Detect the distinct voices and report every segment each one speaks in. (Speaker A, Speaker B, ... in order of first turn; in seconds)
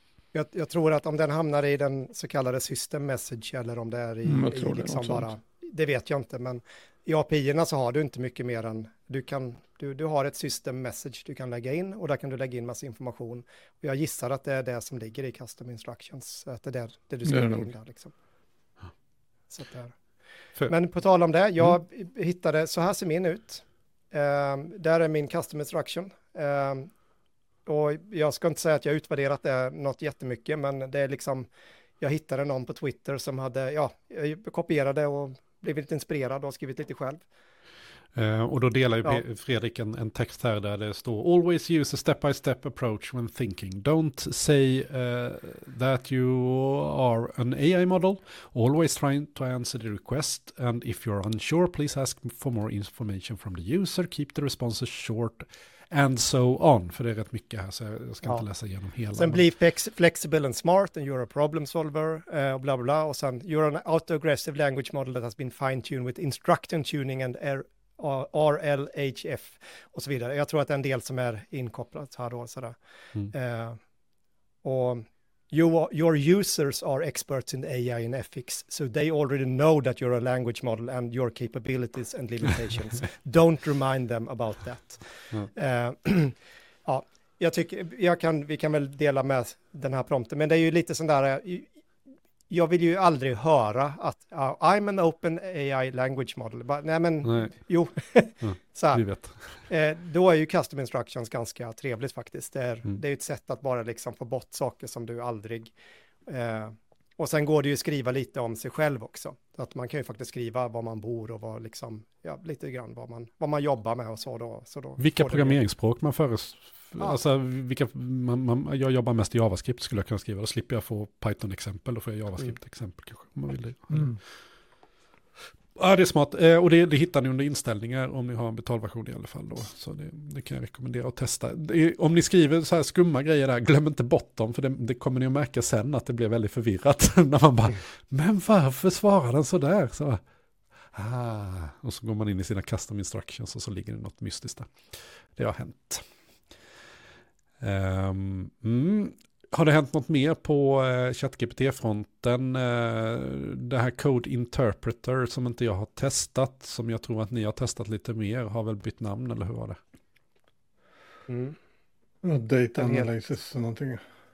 Speaker A: 0.3-18.1, 19.5-19.9, 20.6-26.9, 27.6-31.5, 32.0-37.2, 59.1-72.8, 73.3-73.8, 74.6-91.7, 92.5-99.0, 99.7-105.7, 106.3-115.6, 161.3-161.6, 162.8-163.1
Speaker B: 4.2-5.3, 17.2-17.7, 123.9-124.2, 162.2-164.0
Speaker C: 38.1-59.4, 97.2-97.5, 98.4-99.6, 115.0-124.2, 125.8-140.2, 140.9-146.0, 147.6-159.8